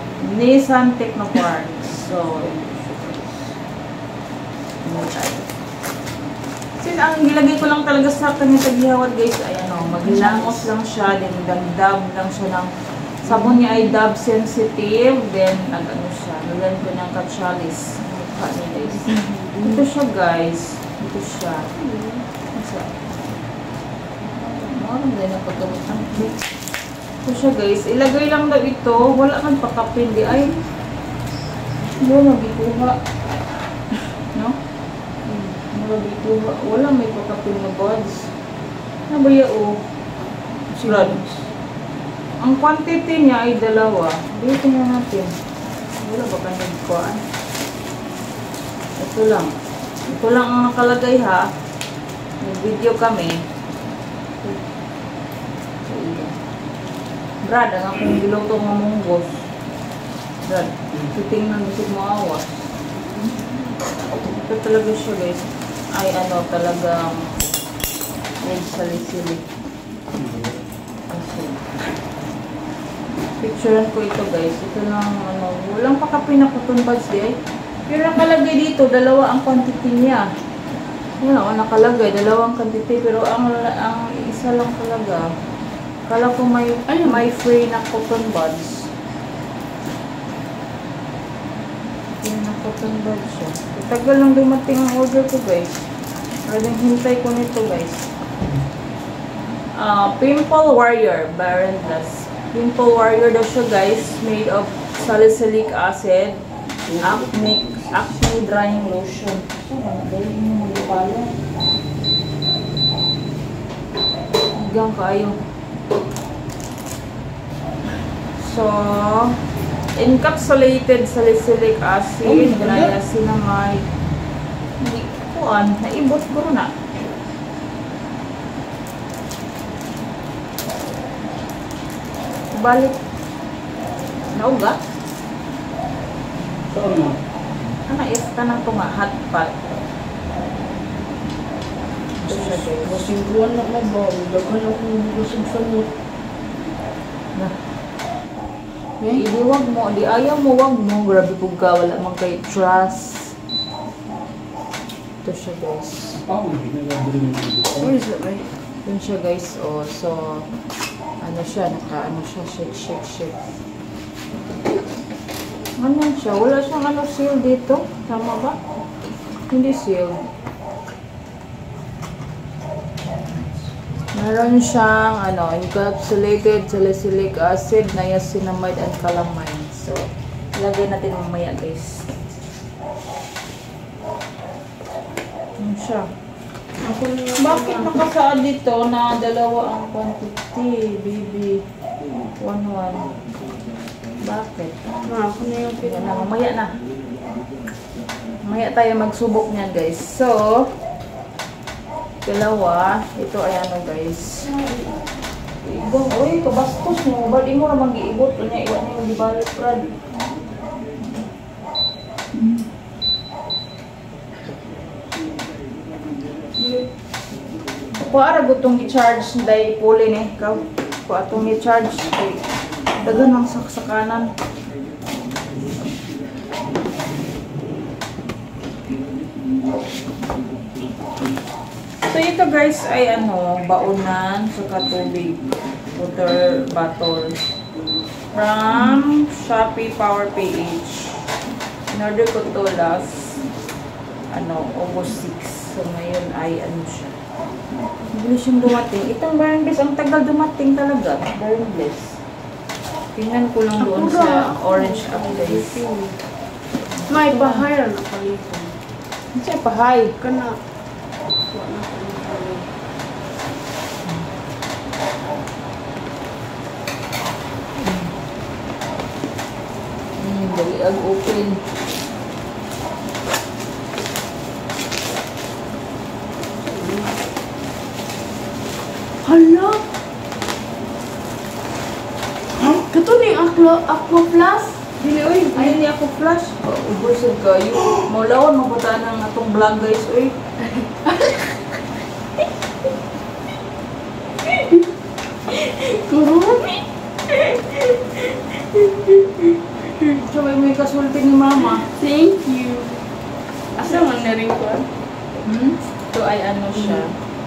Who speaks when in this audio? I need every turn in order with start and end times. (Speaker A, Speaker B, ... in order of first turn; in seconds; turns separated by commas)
Speaker A: 0.2-3.5, Speaker A: 4.8-5.5, Speaker A: 6.8-21.7, Speaker B: 10.1-10.6, Speaker B: 19.0-19.8, Speaker B: 21.8-22.2, Speaker A: 22.6-23.1, Speaker A: 24.6-26.5, Speaker A: 27.2-30.6, Speaker A: 32.0-33.0, Speaker B: 35.3-35.6, Speaker A: 35.7-38.3, Speaker A: 39.1-39.8, Speaker A: 40.7-41.3, Speaker B: 40.9-41.3, Speaker A: 42.4-45.3, Speaker A: 46.0-47.2, Speaker A: 49.0-49.5, Speaker A: 50.1-51.5, Speaker A: 52.4-53.4, Speaker A: 55.8-56.3, Speaker A: 57.4-59.5, Speaker A: 60.5-62.5, Speaker A: 64.1-67.6, Speaker A: 68.4-69.4, Speaker C: 70.2-70.6, Speaker A: 71.1-71.6, Speaker A: 73.4-77.4, Speaker A: 77.9-80.2, Speaker A: 81.2-85.3, Speaker A: 86.1-88.9, Speaker B: 86.9-87.2, Speaker A: 92.2-95.8, Speaker A: 96.5-98.1, Speaker A: 99.8-106.4, Speaker A: 106.9-111.3, Speaker A: 114.5-115.4, Speaker A: 118.4-119.4, Speaker A: 120.0-123.8, Speaker C: 122.4-122.9, Speaker A: 124.8-126.7, Speaker A: 132.5-133.0, Speaker A: 134.3-134.8, Speaker C: 136.7-137.2, Speaker A: 137.9-139.5, Speaker A: 142.2-143.1, Speaker B: 142.3-145.9, Speaker A: 149.2-153.3, Speaker A: 155.2-156.2, Speaker C: 156.2-157.9, Speaker A: 157.8-160.5, Speaker A: 161.2-163.4, Speaker A: 165.8-168.6, Speaker A: 169.5-170.3, Speaker A: 174.1-182.1, Speaker A: 185.6-186.1, Speaker B: 186.8-187.9, Speaker A: 187.4-191.6, Speaker A: 192.4-193.2, Speaker A: 194.2-194.8, Speaker B: 195.1-196.3, Speaker A: 195.8-196.7, Speaker A: 198.4-200.7, Speaker A: 202.2-204.6, Speaker A: 205.6-210.0, Speaker A: 218.0-224.3, Speaker A: 232.1-235.4, Speaker A: 235.9-237.4, Speaker A: 238.3-241.2, Speaker A: 241.9-243.4, Speaker A: 244.3-247.2, Speaker A: 248.1-252.2, Speaker A: 253.2-255.8, Speaker B: 253.8-256.2, Speaker A: 257.0-257.6, Speaker B: 257.1-258.8, Speaker A: 259.4-260.1, Speaker B: 260.2-260.6, Speaker B: 261.5-262.7, Speaker A: 267.8-268.1, Speaker A: 270.2-271.6, Speaker B: 276.7-277.1, Speaker B: 279.2-279.8, Speaker B: 282.6-284.8, Speaker A: 285.0-290.4, Speaker B: 285.6-285.8, Speaker B: 290.6-291.6, Speaker B: 294.5-294.8, Speaker B: 295.5-300.2, Speaker A: 300.2-301.9, Speaker B: 301.8-303.0, Speaker B: 303.8-304.9, Speaker A: 305.4-307.1